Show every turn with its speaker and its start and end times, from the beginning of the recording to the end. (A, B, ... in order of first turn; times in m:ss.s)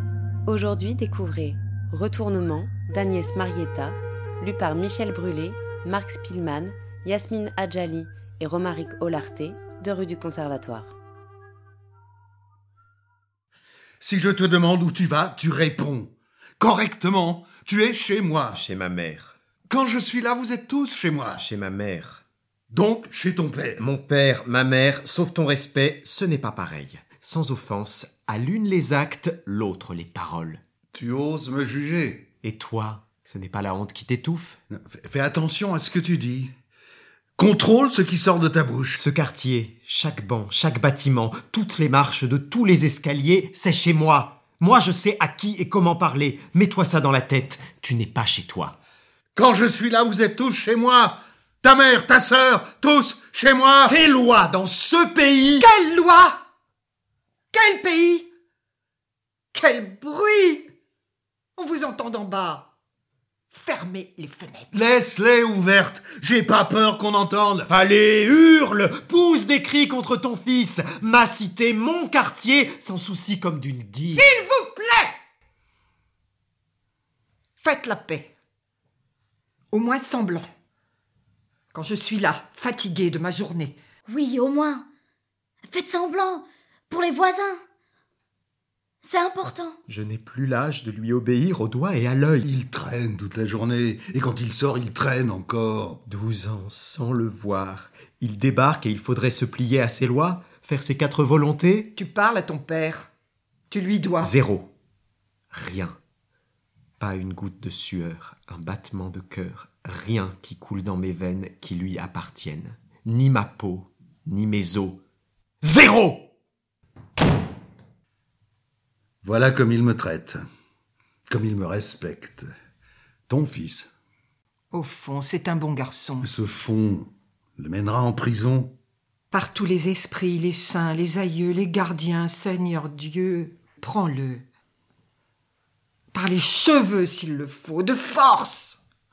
0:00.4-0:10.9 A
0:14.0-0:18.6 B
0:18.5-0:19.3 C
0:19.7-0:21.4 B
0:21.4-0:22.2 C
0:22.7-0:23.8 B
0:23.8-0:30.6 C
0:30.9-0:32.2 B
0:32.4-0:34.6 C
0:34.7-0:36.5 B
0:37.4-0:39.0 B
0:38.9-0:48.8 C
0:49.3-0:54.0 B
0:53.9-0:55.7 C
0:55.6-0:56.4 D
0:57.5-0:58.3 D
0:59.5-1:00.6 D
1:01.6-1:02.7 D
1:03.5-1:04.7 D
1:04.7-1:07.7 B
1:07.7-1:14.3 C
1:14.1-1:15.1 D
1:17.6-1:18.3 D
1:19.7-1:20.4 D
1:21.7-1:23.8 D
1:24.1-1:24.8 E
1:25.7-1:27.6 E
1:29.0-1:29.8 E
1:29.9-1:32.5 C
1:32.4-1:36.0 B
1:36.0-1:41.9 C
1:41.9-1:43.1 D
1:43.7-1:44.4 D
1:44.2-1:44.7 C
1:45.5-1:46.0 C
1:47.0-1:55.0 C
1:55.6-1:56.3 C
1:59.2-2:00.4 B
2:01.3-2:02.5 B
2:03.3-2:03.9 B
2:04.7-2:06.3 D
2:06.2-2:08.7 B
2:09.3-2:14.4 D
2:16.1-2:18.8 D